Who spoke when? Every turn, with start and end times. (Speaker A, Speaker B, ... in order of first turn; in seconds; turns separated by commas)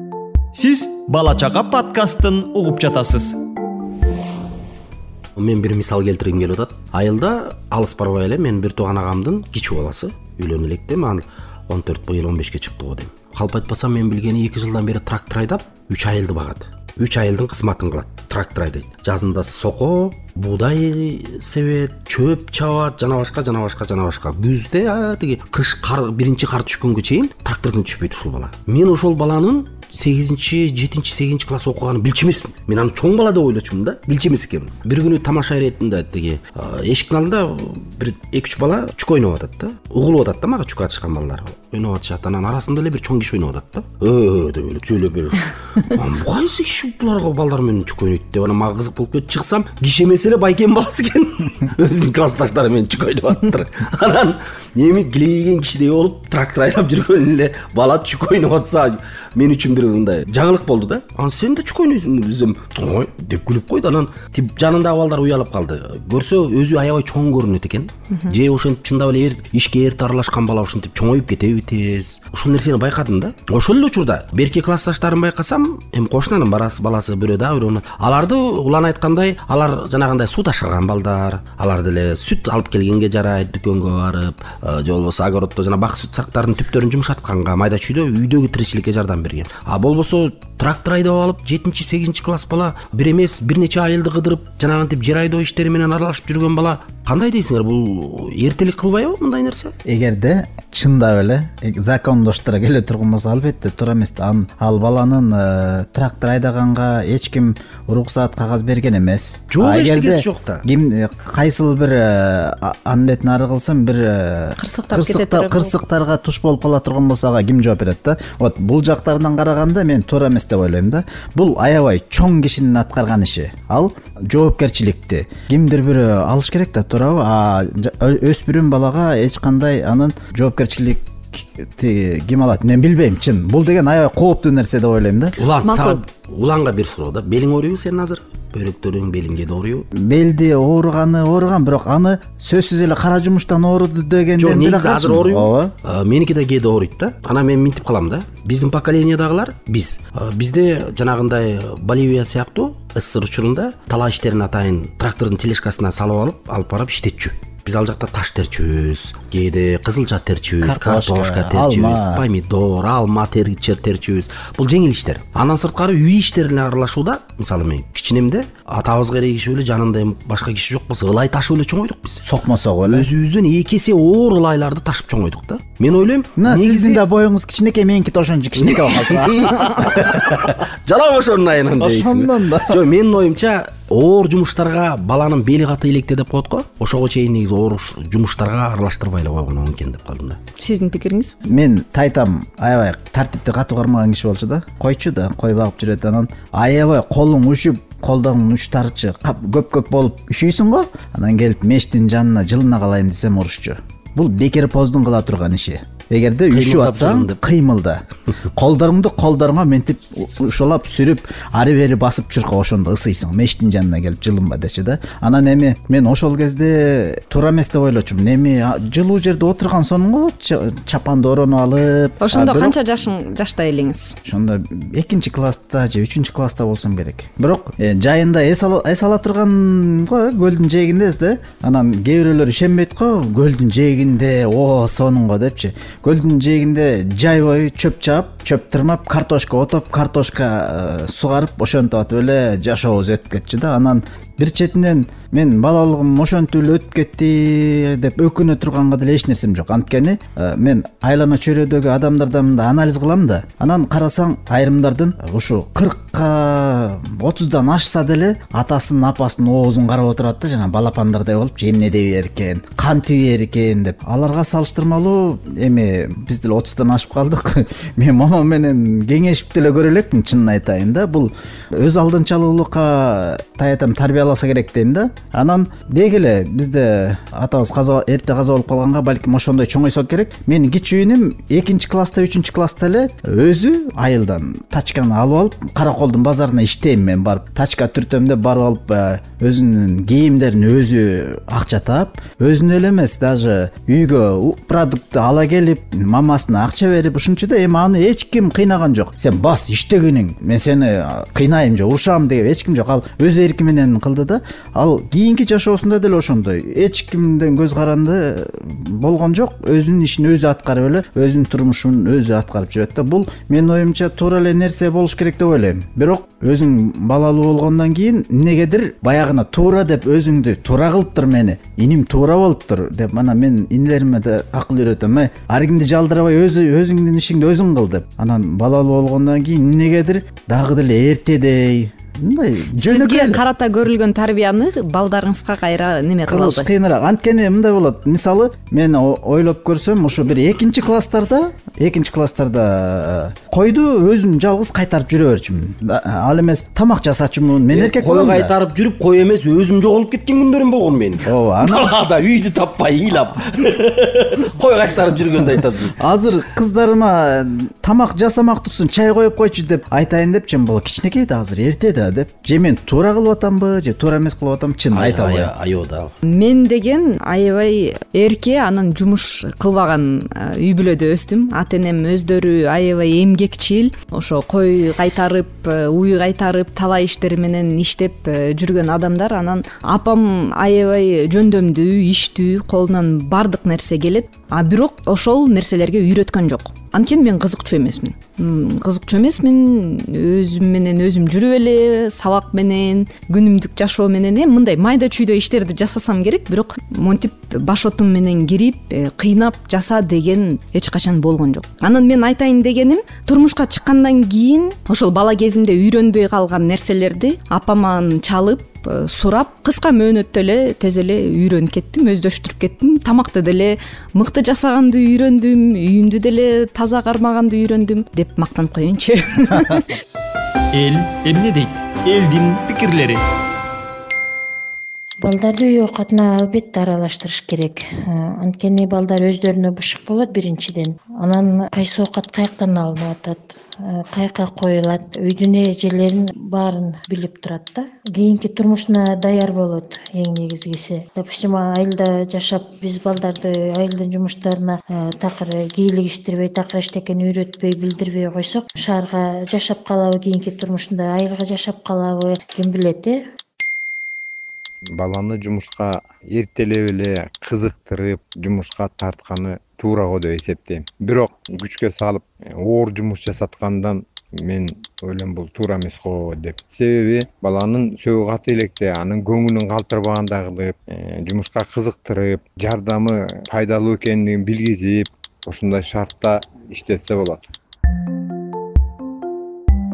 Speaker A: 0.5-3.4, Speaker B: 5.3-99.7, Speaker C: 99.8-135.3, Speaker B: 109.5-110.6, Speaker D: 114.6-115.7, Speaker B: 135.4-139.9, Speaker D: 135.6-136.0, Speaker C: 139.9-145.7, Speaker B: 144.4-172.2, Speaker C: 160.6-162.2, Speaker C: 172.2-173.1, Speaker B: 172.8-177.0, Speaker C: 176.4-180.2, Speaker B: 178.6-190.4, Speaker C: 181.8-182.8, Speaker D: 190.6-191.3, Speaker C: 191.4-208.0, Speaker B: 206.5-207.4, Speaker C: 208.5-222.8, Speaker D: 222.2-224.1, Speaker C: 224.2-333.4, Speaker D: 332.8-336.7, Speaker C: 336.3-348.5, Speaker B: 347.7-356.0, Speaker C: 351.2-351.9, Speaker C: 356.0-365.5, Speaker B: 364.9-366.1, Speaker D: 366.2-419.9, Speaker A: 420.7-423.2, Speaker E: 425.2-453.2, Speaker F: 454.9-477.4